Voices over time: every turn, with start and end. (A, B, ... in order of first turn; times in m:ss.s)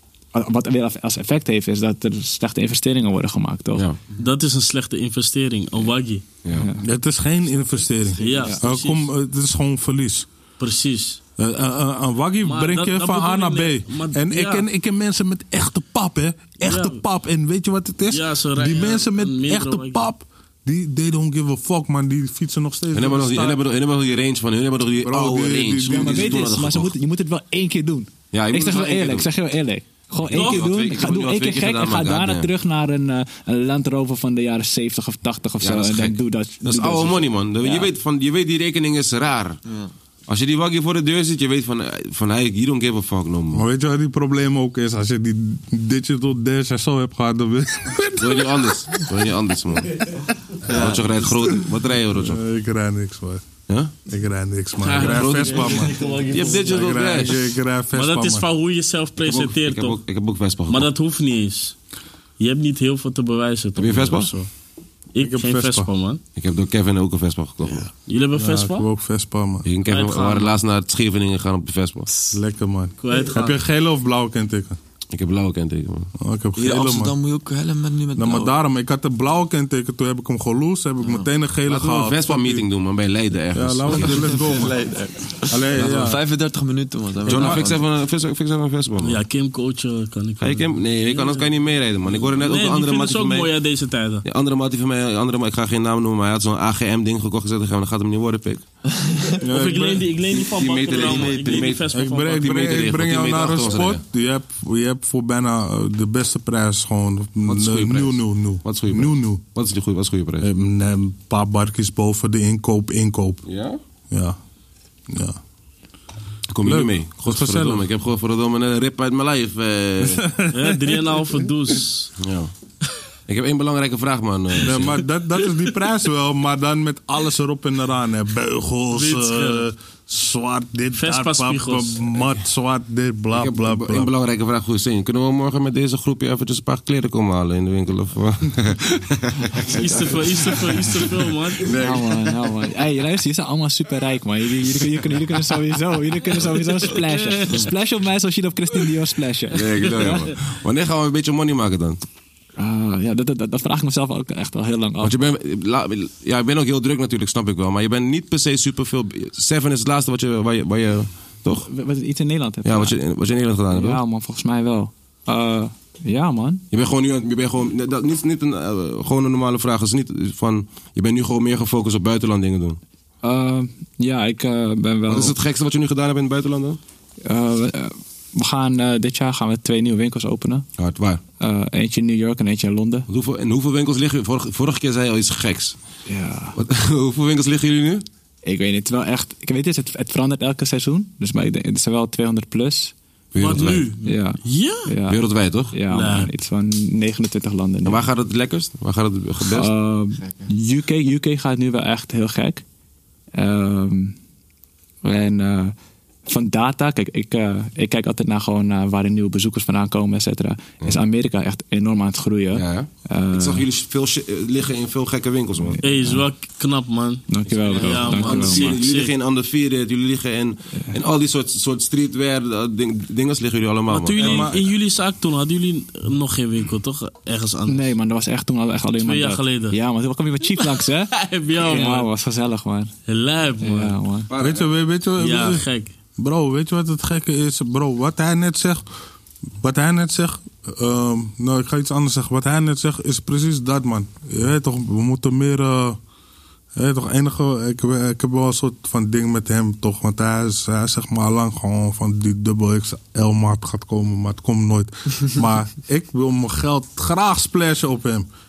0:00.3-0:03.8 A
0:04.2-0:06.2 B
0:06.5-0:06.8 A
0:06.8-0:10.3 C
0:08.2-0:09.1 B
0:10.6-0:11.2 B
0:11.4-0:23.6 C
0:12.4-0:14.6 B
0:16.6-0:17.0 B
0:18.1-0:20.0 B
0:22.9-0:26.9 D
0:25.0-0:26.5 C
0:25.8-0:37.9 A
0:28.3-0:29.3 D
0:30.3-0:32.5 D
0:30.3-0:30.7 B
0:35.6-0:39.6 D
0:39.7-0:39.9 E
0:40.3-0:43.6 D
0:43.5-0:49.1 C
0:48.2-0:50.0 D
0:50.7-0:51.0 C
0:50.7-0:52.4 D
0:50.7-0:51.0 E
0:52.1-0:53.4 C
0:53.7-0:53.9 D
0:54.0-0:56.0 C
0:54.8-0:57.0 B
0:54.8-0:57.5 D
0:56.6-0:58.5 C
0:57.9-1:00.0 B
0:59.2-1:00.9 D
1:00.7-1:01.7 B
1:02.4-1:04.3 B
1:03.8-1:04.3 D
1:04.1-1:04.5 C
1:05.1-1:06.2 B
1:05.2-1:05.9 C
1:06.4-1:07.9 D
1:08.1-1:08.8 B
1:08.3-1:09.6 C
1:09.6-1:12.1 D
1:09.8-1:10.6 B
1:12.3-1:14.8 C
1:13.0-1:13.5 B
1:15.1-1:16.1 D
1:16.2-1:17.1 C
1:16.6-1:18.5 E
1:18.2-1:22.6 C
1:21.6-1:24.5 D
1:23.5-1:24.8 C
1:24.1-1:27.8 E
1:25.5-1:26.2 C
1:27.2-1:27.6 C
1:27.2-1:29.2 D
1:29.0-1:31.5 B
1:30.4-1:33.5 D
1:32.3-1:34.2 B
1:34.2-1:38.6 D
1:38.9-1:39.4 E
1:39.4-1:40.1 C
1:39.5-1:42.6 B
1:40.3-1:44.0 D
1:40.9-1:41.7 E
1:41.9-1:49.4 C
1:47.4-1:50.5 D
1:50.4-1:53.4 C
1:53.4-1:53.8 D
1:54.1-1:54.4 C
1:55.1-1:55.4 C
1:56.5-2:00.3 D
1:56.6-1:57.8 C
2:00.0-2:01.4 C
2:00.5-2:02.1 B
2:02.2-2:02.5 D
2:03.3-2:05.0 D
2:04.6-2:14.1 C
2:08.9-2:09.7 B
2:10.9-2:12.2 B
2:13.3-2:19.6 D
2:19.7-2:20.8 E
2:19.7-2:21.7 B
2:21.7-2:22.0 D
2:21.7-2:30.2 A
2:26.9-2:27.6 B
2:29.5-2:32.0 D
2:32.6-2:35.2 A
2:35.0-2:41.7 D
2:41.6-2:43.0 A
2:42.6-2:44.0 D
2:43.7-2:46.6 A
2:46.7-2:52.8 D
2:53.2-2:55.3 A
2:55.1-2:56.8 D
2:57.2-3:00.6 A
3:00.8-3:01.2 D
3:01.4-3:03.1 A
3:03.1-3:05.8 D
3:06.1-3:06.6 A
3:06.6-3:08.0 D
3:08.4-3:12.9 A
3:13.3-3:13.9 D
3:13.4-3:14.9 B
3:14.0-3:15.2 A
3:15.1-3:15.7 D
3:15.7-3:18.0 A
3:15.9-3:16.3 B
3:17.8-3:19.7 D
3:19.4-3:22.6 A
3:20.2-3:20.5 E
3:23.3-3:24.2 A
3:25.0-3:25.7 A
3:26.3-3:33.6 A
3:32.5-3:35.8 D
3:35.6-3:36.2 A
3:35.8-3:39.1 B
3:37.3-3:38.8 A
3:37.7-3:44.5 D
3:43.9-3:47.9 B
3:44.2-3:44.6 C
3:47.7-3:52.9 A
3:49.0-3:49.8 B
3:50.8-3:52.1 B
3:53.0-3:53.9 B
3:53.6-3:54.3 A
3:54.3-3:54.7 D
3:54.4-3:55.6 C
3:55.2-3:55.9 B
3:56.2-3:58.8 C
3:59.6-4:06.0 C
4:06.7-4:18.3 C